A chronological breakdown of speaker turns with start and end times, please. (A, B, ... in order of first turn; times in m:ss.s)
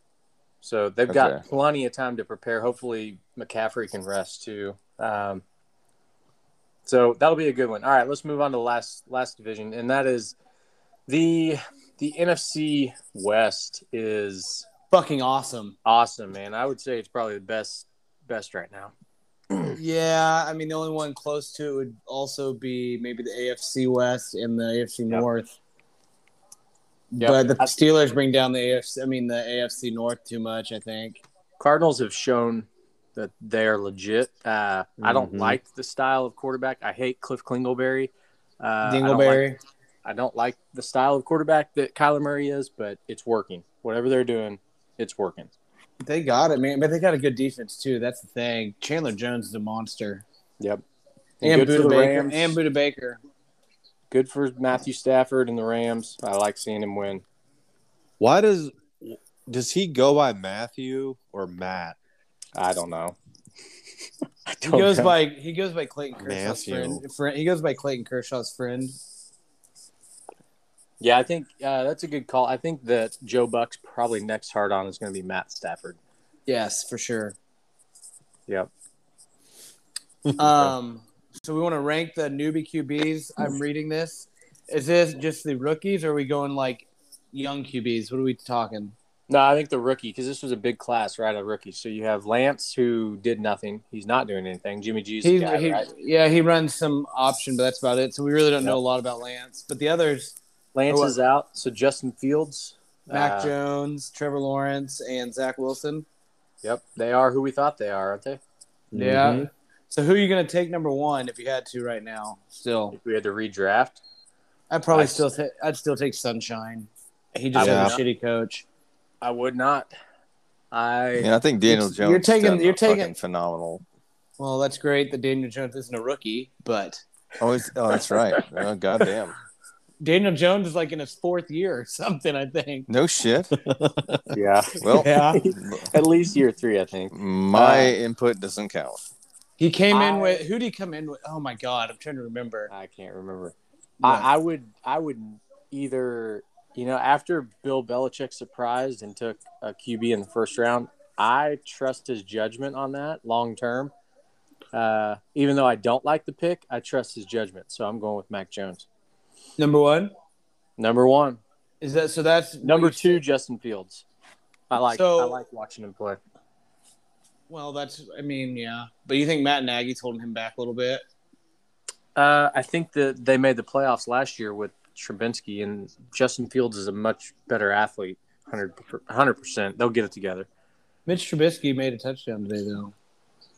0:00.6-0:05.4 A
0:01.1-0:01.4 B
0:06.8-0:10.3 A
0:11.1-0:14.7 A
0:14.9-0:15.8 C
0:15.8-0:18.9 A
0:19.5-0:19.8 A
0:19.8-0:25.5 C
0:27.1-0:31.2 C
0:27.2-0:27.7 A
0:31.6-0:39.4 A
0:35.0-0:35.6 D
0:38.8-0:39.6 C
0:40.0-0:45.5 A
0:46.0-0:50.2 C
0:51.4-0:52.6 A
0:51.4-0:53.2 C
0:54.1-0:57.2 A
0:58.2-1:02.0 D
1:02.5-1:03.2 A
1:04.5-1:05.1 A
1:04.6-1:09.0 C
1:06.2-1:07.0 D
1:11.0-1:16.0 A
1:16.5-1:17.4 C
1:20.4-1:28.9 C
1:29.3-1:35.9 A
1:35.2-1:40.4 C
1:40.7-1:43.5 A
1:40.9-1:41.2 C
1:43.1-1:46.0 C
1:46.6-1:48.4 A
1:48.9-1:49.5 D
1:48.9-1:53.0 C
1:52.9-1:54.0 A
1:54.7-1:58.6 C
1:54.9-1:55.2 A
1:57.5-1:58.0 A
1:57.6-1:58.0 D
1:59.2-1:59.9 A
2:00.7-2:01.3 A
2:01.2-2:03.8 B
2:01.7-2:03.1 C
2:04.4-2:07.0 C
2:07.4-2:09.3 B
2:08.1-2:08.4 A
2:10.0-2:12.9 C
2:12.9-2:13.5 B
2:13.6-2:14.3 D
2:14.3-2:18.0 A
2:14.8-2:15.9 B
2:14.9-2:15.4 C
2:17.1-2:19.0 B
2:19.6-2:22.7 C
2:19.9-2:20.4 A
2:22.7-2:33.9 A
2:24.0-2:24.3 C
2:34.7-2:38.9 A
2:39.6-2:40.1 C
2:40.8-2:41.4 A
2:41.8-2:43.2 C
2:42.6-2:44.0 A
2:44.7-2:46.2 A
2:44.9-2:45.4 C
2:47.5-2:51.0 C
2:52.2-3:00.5 A
3:01.0-3:02.9 C